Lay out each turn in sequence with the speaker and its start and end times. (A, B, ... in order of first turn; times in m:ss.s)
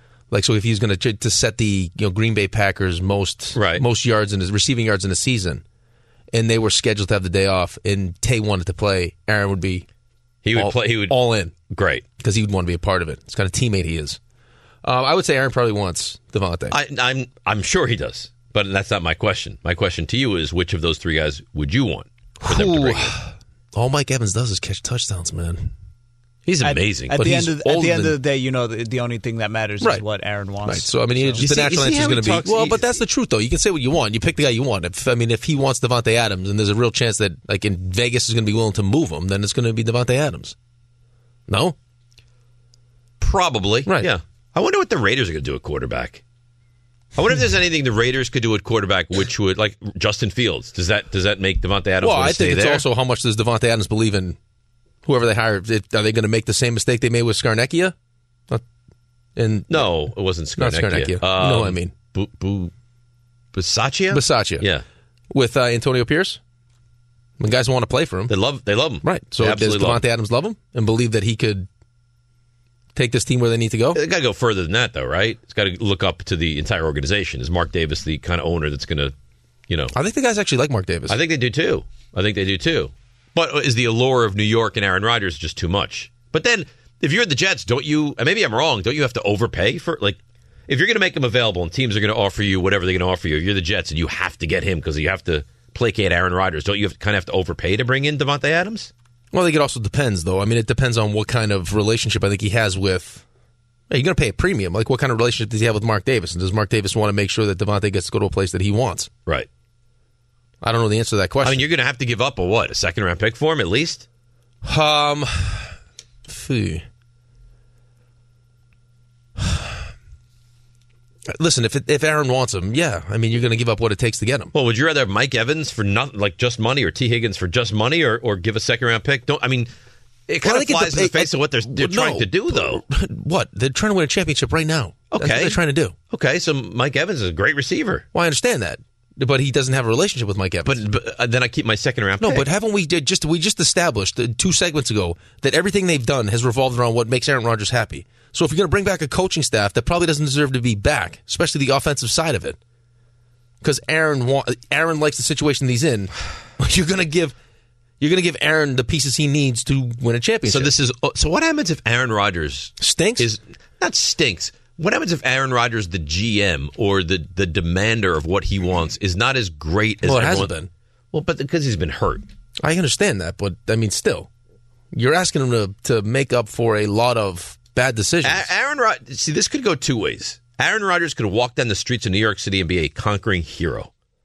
0:00.3-0:05.6 A
0:03.5-0:03.8 B
0:06.3-0:09.9 A
0:10.4-0:11.2 B
0:10.5-0:11.5 A
0:11.7-0:12.0 B
0:12.2-0:14.2 A
0:14.8-0:16.8 A
0:16.7-0:23.2 B
0:22.4-0:25.7 A
0:26.5-0:27.2 B
0:26.6-0:31.5 C
0:27.1-0:28.2 A
0:30.6-0:40.6 A
0:31.4-0:32.9 B
0:41.5-0:41.8 A
0:43.2-0:46.2 B
0:43.9-0:44.1 A
0:47.2-0:52.8 B
0:52.0-0:54.4 A
0:55.0-0:58.0 A
0:59.4-1:01.9 A
0:59.7-1:02.7 B
1:03.5-1:04.8 B
1:04.1-1:04.7 A
1:05.3-1:06.4 A
1:07.4-1:08.4 A
1:08.3-1:10.0 B
1:09.0-1:11.7 A
1:13.0-1:14.0 A
1:13.9-1:19.1 B
1:19.7-1:19.9 B
1:19.9-1:21.2 A
1:21.1-1:38.9 B
1:39.3-1:43.2 A
1:43.9-1:49.1 A
1:50.6-1:51.7 A
1:51.4-1:54.1 B
1:54.6-1:55.7 A
1:56.3-1:56.8 A
1:59.4-1:59.7 A
2:01.3-2:04.5 A
2:04.5-2:09.7 B
2:10.3-2:12.8 B
2:10.4-2:15.9 A
2:15.1-2:18.1 B
2:18.1-2:20.8 A
2:20.6-2:22.5 B
2:22.2-2:32.6 A
2:33.6-2:37.4 A
2:38.0-2:40.7 A
2:40.5-2:50.5 B
2:42.8-2:43.3 A
2:50.0-2:50.7 A
2:51.1-2:52.3 B
2:52.6-2:54.3 A
2:54.9-2:58.5 A
2:58.2-3:03.9 B